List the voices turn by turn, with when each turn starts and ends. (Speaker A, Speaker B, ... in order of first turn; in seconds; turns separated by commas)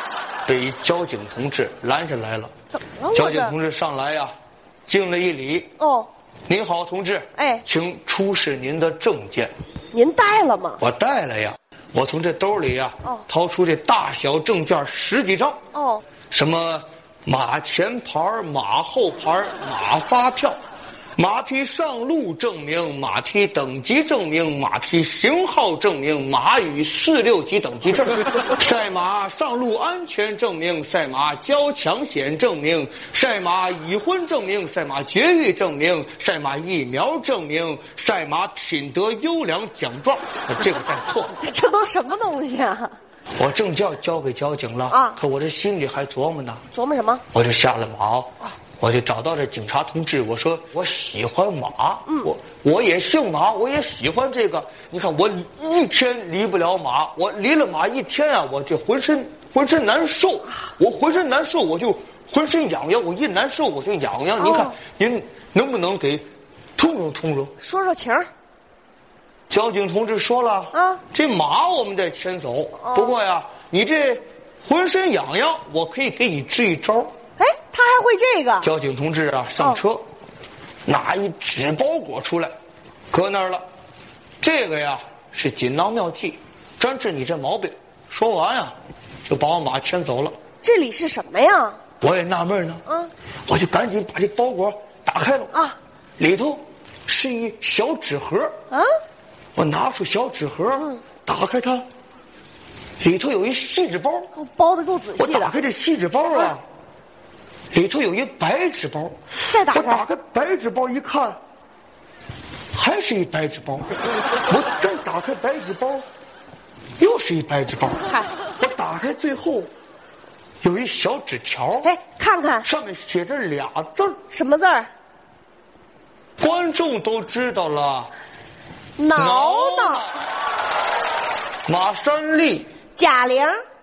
Speaker A: 0.5-2.5, Speaker B: 2.7-3.5, Speaker A: 3.1-4.3, Speaker A: 4.9-5.7, Speaker B: 5.8-6.1, Speaker A: 6.5-9.5, Speaker B: 7.4-7.7, Speaker B: 9.9-10.8, Speaker A: 10.8-15.6, Speaker B: 15.7-16.0, Speaker A: 16.3-20.6, Speaker A: 21.2-41.3, Speaker B: 41.3-43.0, Speaker A: 43.4-46.6, Speaker B: 44.9-45.2, Speaker B: 46.7-47.2, Speaker A: 47.3-67.5, Speaker B: 64.4-64.8, Speaker B: 67.6-68.3, Speaker A: 69.5-77.1, Speaker B: 70.7-71.0, Speaker B: 72.8-73.1, Speaker B: 77.4-78.7, Speaker A: 78.6-80.0, Speaker A: 80.9-82.5, Speaker A: 83.1-83.6, Speaker A: 84.4-88.8, Speaker A: 89.2-90.3, Speaker B: 90.6-91.8, Speaker A: 92.0-92.8, Speaker A: 93.5-95.5, Speaker A: 96.2-98.5, Speaker A: 99.6-101.9, Speaker A: 103.0-104.3, Speaker B: 104.3-105.6, Speaker A: 105.2-106.6, Speaker A: 107.7-109.2, Speaker B: 109.5-110.0, Speaker A: 109.7-111.4, Speaker A: 112.7-113.9, Speaker A: 114.5-116.1, Speaker A: 117.0-119.7, Speaker B: 118.1-118.3, Speaker A: 120.6-121.9, Speaker B: 121.8-122.7, Speaker A: 122.6-124.2, Speaker B: 124.3-124.9, Speaker A: 126.4-128.1, Speaker B: 129.0-130.1, Speaker A: 129.1-130.1, Speaker A: 131.7-132.7, Speaker B: 133.0-133.6